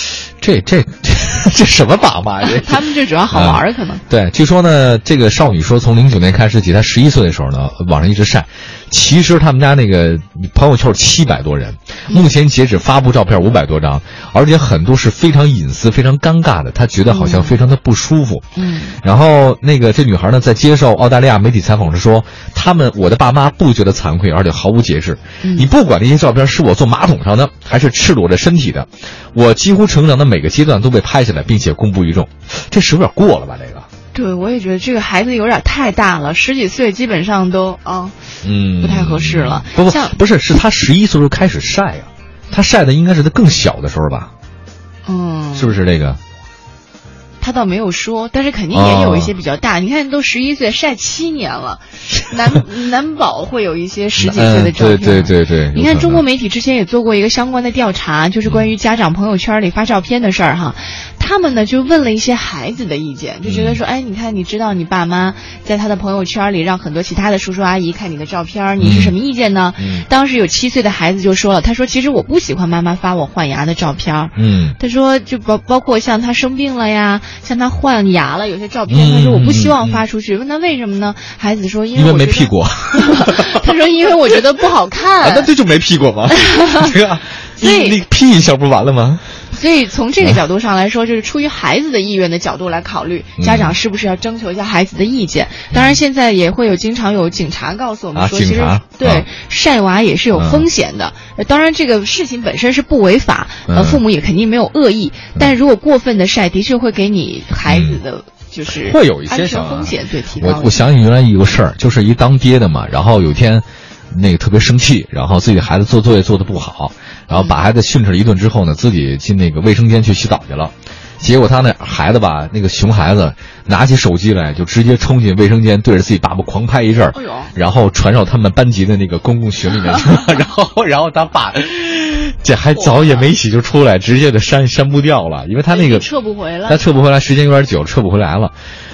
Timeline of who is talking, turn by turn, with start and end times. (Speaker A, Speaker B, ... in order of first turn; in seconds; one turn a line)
Speaker A: 0.4-18.5
Speaker B: 2.4-4.0
Speaker B: 17.1-17.6
Speaker B: 18.6-19.0
Speaker A: 19.0-33.9
Speaker B: 25.4-25.7
Speaker B: 34.1-38.2
Speaker A: 38.4-44.3
Speaker B: 38.8-40.2
Speaker B: 45.1-45.8
Speaker A: 45.6-46.2
Speaker B: 47.4-85.5
Speaker A: 48.7-49.3
Speaker A: 54.2-56.2
Speaker A: 63.5-63.8
Speaker A: 68.8-69.1
Speaker A: 69.8-70.1
Speaker A: 74.4-74.8
Speaker A: 78.9-80.0
Speaker A: 82.0-83.6
Speaker A: 85.2-89.3
Speaker B: 86.4-86.8
Speaker B: 87.6-88.0
Speaker B: 89.5-110.9
Speaker A: 93.4-93.8
Speaker A: 95.7-96.0
Speaker A: 98.2-99.3
Speaker A: 100.3-100.7
Speaker A: 103.7-104.0
Speaker A: 107.7-108.0
Speaker A: 108.7-136.1
Speaker B: 117.3-117.6
Speaker B: 127.1-127.5
Speaker B: 132.8-133.3
Speaker B: 135.7-136.8
Speaker A: 136.7-138.5